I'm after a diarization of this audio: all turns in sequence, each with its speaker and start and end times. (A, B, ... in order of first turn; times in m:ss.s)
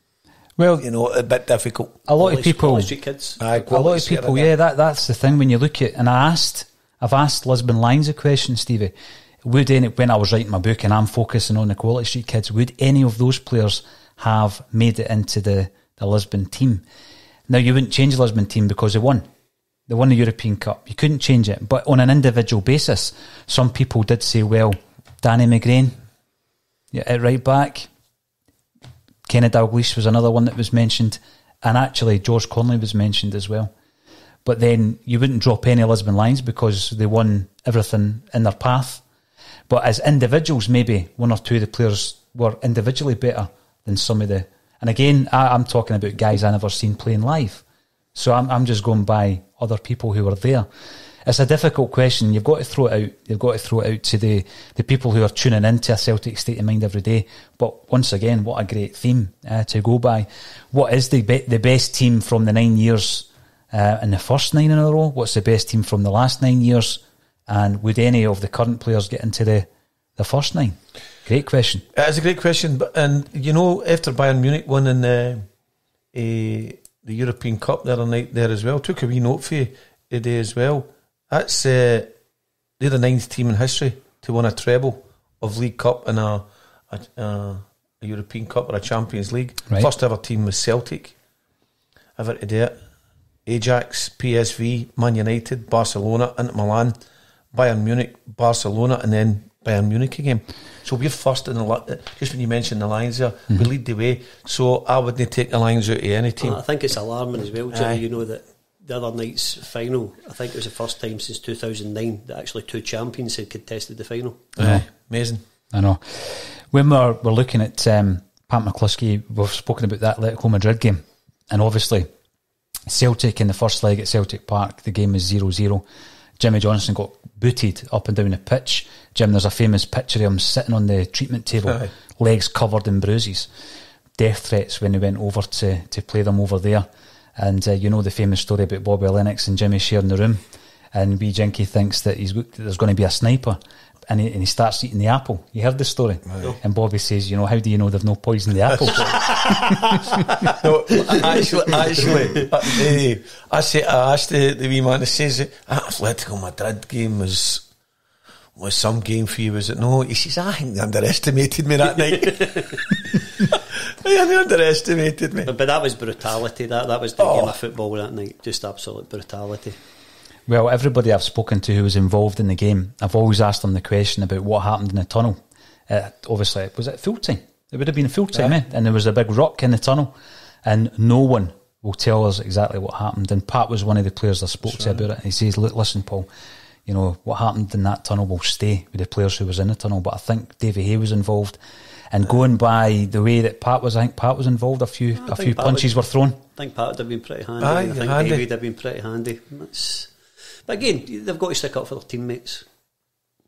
0:00.6-0:00.8 A
0:00.8-0:02.0 B
0:02.1-0:02.9 A
0:02.2-0:03.5 C
0:03.4-0:04.5 B
0:03.5-0:08.9 A
0:09.4-0:16.8 A
0:17.5-0:19.3 A
0:19.9-0:26.0 A
0:26.9-0:27.9 A
0:29.3-0:33.7 A
0:34.4-0:39.0 A
0:39.7-0:47.6 A
0:48.2-0:50.7 A
0:51.2-1:11.8 A
1:11.9-1:15.4 B
1:16.1-1:22.1 B
1:22.8-1:31.2 B
1:32.2-1:32.8 B
1:33.5-1:37.0 B
1:37.5-1:46.6 B
1:46.4-1:54.5 C
1:47.7-1:48.0 B
1:54.6-1:55.4 B
1:54.6-1:54.8 A
1:55.7-2:02.1 A
2:02.9-2:05.8 A
2:06.4-2:13.5 A
2:14.2-2:16.9 A
2:17.4-2:20.4 A
2:20.9-2:29.7 A
2:26.3-2:26.6 B
2:29.1-2:30.5 C
2:30.5-2:37.6 B
2:31.1-2:32.5 C
2:38.6-2:45.5 B
2:42.2-2:42.8 C
2:45.4-2:49.8 C
2:47.2-2:47.6 B
2:50.5-3:00.1 A
3:00.6-3:06.3 A
3:06.9-3:11.6 A
3:12.1-3:16.4 A
3:15.2-3:20.1 C
3:17.6-3:18.4 B
3:20.7-3:22.7 C